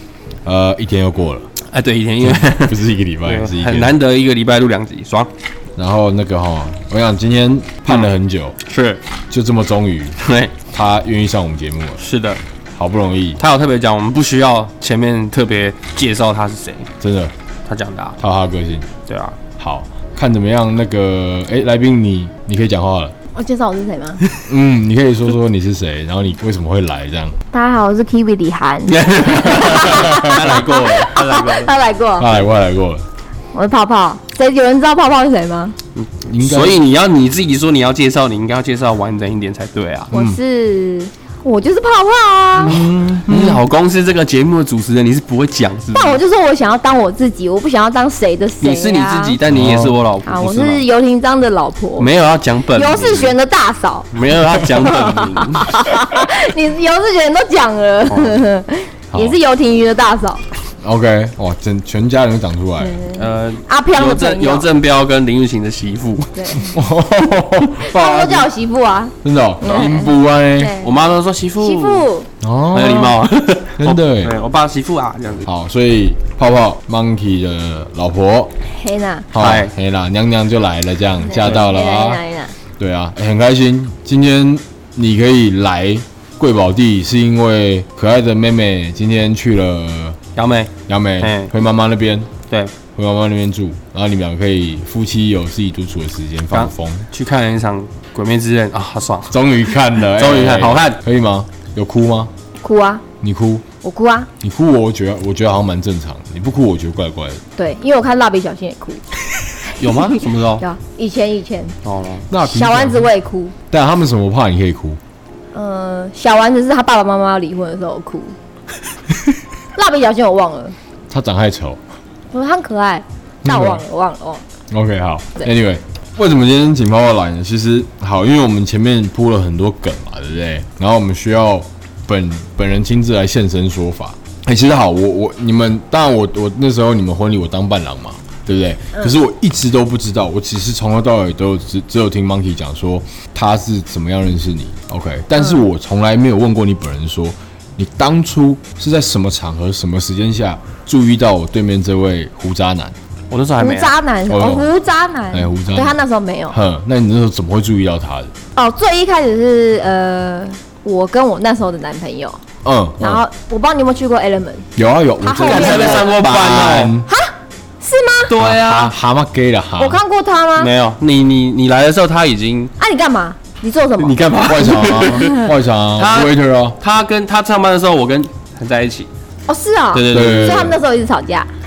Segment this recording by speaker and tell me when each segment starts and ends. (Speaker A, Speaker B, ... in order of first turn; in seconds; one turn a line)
Speaker A: 0.5-1.5
Speaker B: 1.7-5.3
Speaker A: 2.2-3.9
Speaker A: 5.8-8.6
Speaker B: 8.7-9.0
Speaker A: 9.3-10.2
Speaker B: 10.2-10.6
Speaker A: 10.7-12.0
Speaker B: 12.0-12.4
Speaker A: 12.8-13.4
Speaker B: 13.4-16.9
Speaker A: 17.0-17.3
Speaker B: 17.7-18.2
Speaker A: 18.2-18.9
Speaker B: 19.1-19.4
Speaker A: 19.6-23.1
Speaker C: 23.3-24.2
Speaker A: 24.5-27.4
Speaker C: 27.5-32.3
Speaker B: 28.9-31.7
Speaker A: 29.9-30.3
Speaker A: 32.2-33.0
Speaker C: 33.5-35.8
Speaker B: 36.0-40.1
Speaker A: 36.2-36.8
Speaker C: 40.1-42.9
Speaker A: 40.1-40.4
Speaker A: 42.6-43.6
Speaker B: 42.6-46.2
Speaker C: 46.0-49.4
Speaker B: 48.6-50.8
Speaker A: 49.5-50.0
Speaker C: 50.2-52.1
Speaker B: 52.0-53.4
Speaker C: 52.8-54.1
Speaker B: 54.1-55.7
Speaker C: 54.8-60.4
Speaker B: 58.1-58.4
Speaker A: 60.8-63.0
Speaker C: 62.8-64.7
Speaker B: 63.2-66.5
Speaker C: 66.3-66.8
Speaker A: 66.7-68.5
Speaker C: 67.8-71.0
Speaker A: 69.2-70.8
Speaker B: 70.8-72.1
Speaker C: 71.6-72.3
Speaker A: 72.4-73.2
Speaker B: 72.7-75.5
Speaker A: 73.8-74.4
Speaker A: 75.5-78.5
Speaker C: 78.7-79.3
Speaker A: 79.3-82.2
Speaker B: 79.4-79.7
Speaker C: 81.2-82.5
Speaker A: 82.8-90.2
Speaker B: 90.4-91.5
Speaker A: 90.9-92.3
Speaker A: 93.0-97.1
Speaker B: 96.5-99.4
Speaker A: 99.3-102.3
Speaker B: 100.0-101.0
Speaker C: 102.6-103.0
Speaker A: 103.2-103.6
Speaker C: 103.8-104.3
Speaker A: 104.4-107.4
Speaker C: 107.6-109.0
Speaker B: 109.8-110.6
Speaker C: 109.8-111.7
Speaker B: 111.8-112.3
Speaker A: 112.3-113.1
Speaker C: 112.4-113.5
Speaker A: 113.7-115.0
Speaker C: 115.5-118.3
Speaker C: 119.8-120.8
Speaker A: 121.1-121.8
Speaker C: 122.3-124.4
Speaker A: 123.5-123.8
Speaker A: 124.7-152.9
Speaker B: 153.3-153.9
Speaker C: 153.6-156.6
Speaker A: 154.3-154.7
Speaker A: 155.3-156.0
Speaker A: 156.5-158.3
Speaker C: 158.6-162.4
Speaker A: 162.6-163.2
Speaker C: 163.0-164.7
Speaker A: 164.8-167.1
Speaker C: 165.2-166.1
Speaker B: 165.4-167.0
Speaker C: 167.1-168.3
Speaker B: 168.3-168.9
Speaker A: 168.4-170.0
Speaker C: 169.8-170.7
Speaker B: 170.6-172.7
Speaker C: 172.8-175.5
Speaker B: 174.0-175.4
Speaker A: 174.3-176.8
Speaker B: 176.0-179.1
Speaker C: 179.5-181.5
Speaker B: 179.9-180.8
Speaker A: 180.1-180.8